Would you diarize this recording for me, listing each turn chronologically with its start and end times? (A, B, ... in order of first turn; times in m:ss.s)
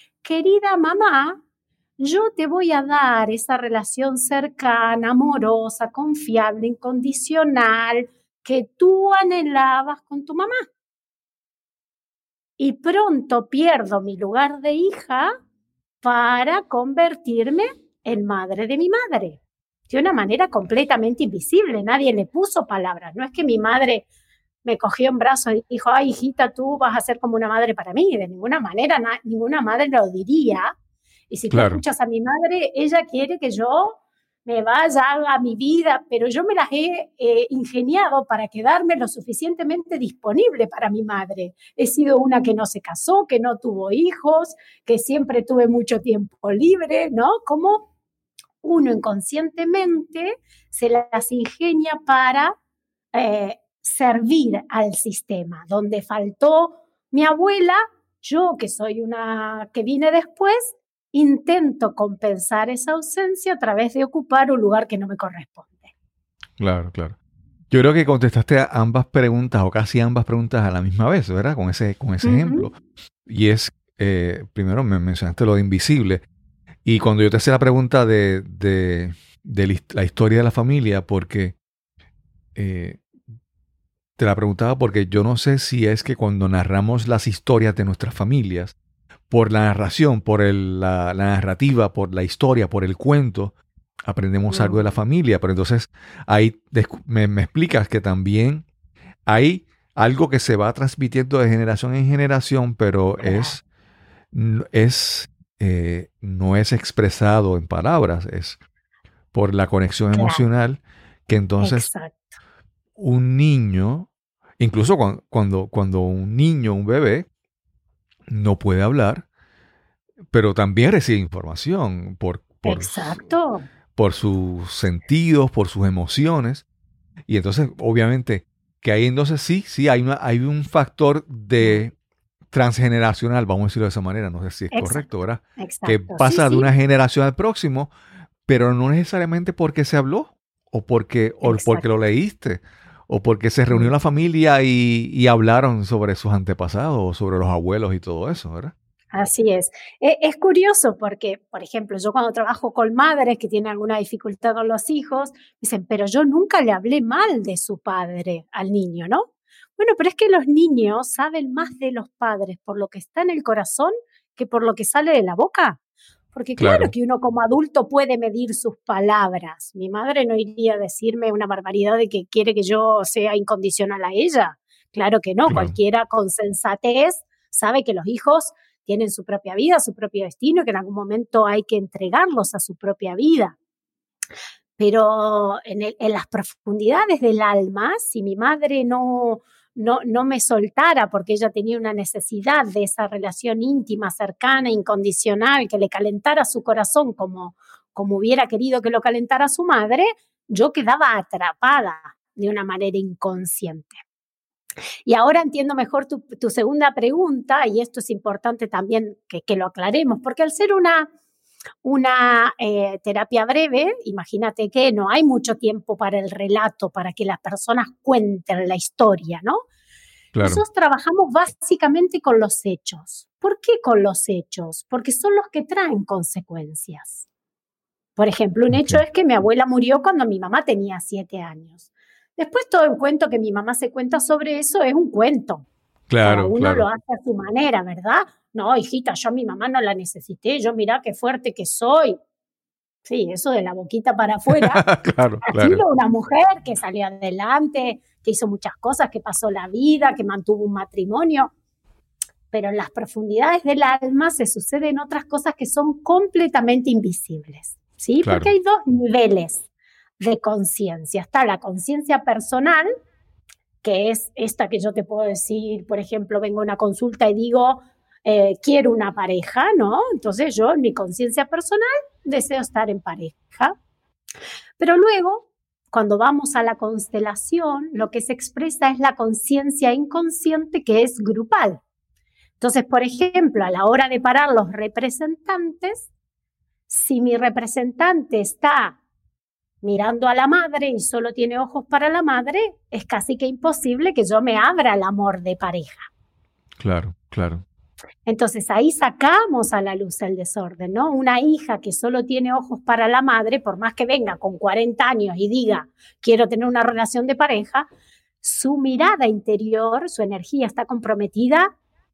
0:00.2-0:01.4 A
0:02.0-0:10.7 A
0:12.6-0:15.3 A
0:16.0-0:24.0 A
0:24.6-0:30.7 A
0:31.3-0:47.9 A
0:31.5-0:31.8 B
0:48.6-0:52.5 A
0:53.1-1:05.9 A
1:06.6-1:07.2 B
1:07.7-1:12.7 B
1:12.2-1:12.7 A
1:13.2-1:16.2 B
1:16.8-1:21.6 B
1:22.6-1:23.0 B
1:24.2-1:28.8 B
1:29.3-1:33.5 B
1:34.0-1:38.6 B
1:34.5-1:34.8 A
1:39.2-1:43.6 B
1:43.2-1:43.6 A
1:44.3-1:48.6 B
1:49.3-1:51.9 B
1:50.1-1:50.4 A
1:51.6-1:52.3 A
1:53.0-1:57.3 B
1:58.3-1:59.2 B
2:00.3-2:03.2 B
2:02.6-2:03.6 A
2:04.0-2:06.6 B
2:07.3-2:11.9 B
2:12.5-2:17.9 B
2:14.7-2:16.7 A
2:18.5-2:28.7 B
2:21.4-2:21.8 A
2:29.1-2:39.2 A
2:39.8-2:45.8 A
2:46.3-3:03.6 A
2:46.6-2:46.9 B
2:55.5-2:55.7 B
3:04.8-3:24.0 A
3:25.1-3:31.1 A
3:31.8-3:39.6 A
3:40.3-3:40.6 B
3:40.4-3:47.2 A
3:48.2-3:51.8 A
3:48.7-3:49.0 B
3:52.4-3:55.6 A
3:56.1-3:56.9 B
3:56.2-4:02.2 A
4:03.0-4:04.8 A
4:04.5-4:05.8 B
4:05.5-4:11.5 A
4:12.5-4:19.6 A
4:18.2-4:18.5 B
4:20.2-4:22.9 A
4:23.8-4:33.7 A
4:34.8-4:41.8 A
4:42.6-4:46.1 A
4:46.9-4:49.0 A
4:49.8-4:56.0 A
4:56.8-4:57.6 B
4:58.2-5:07.9 A
5:08.4-5:11.7 A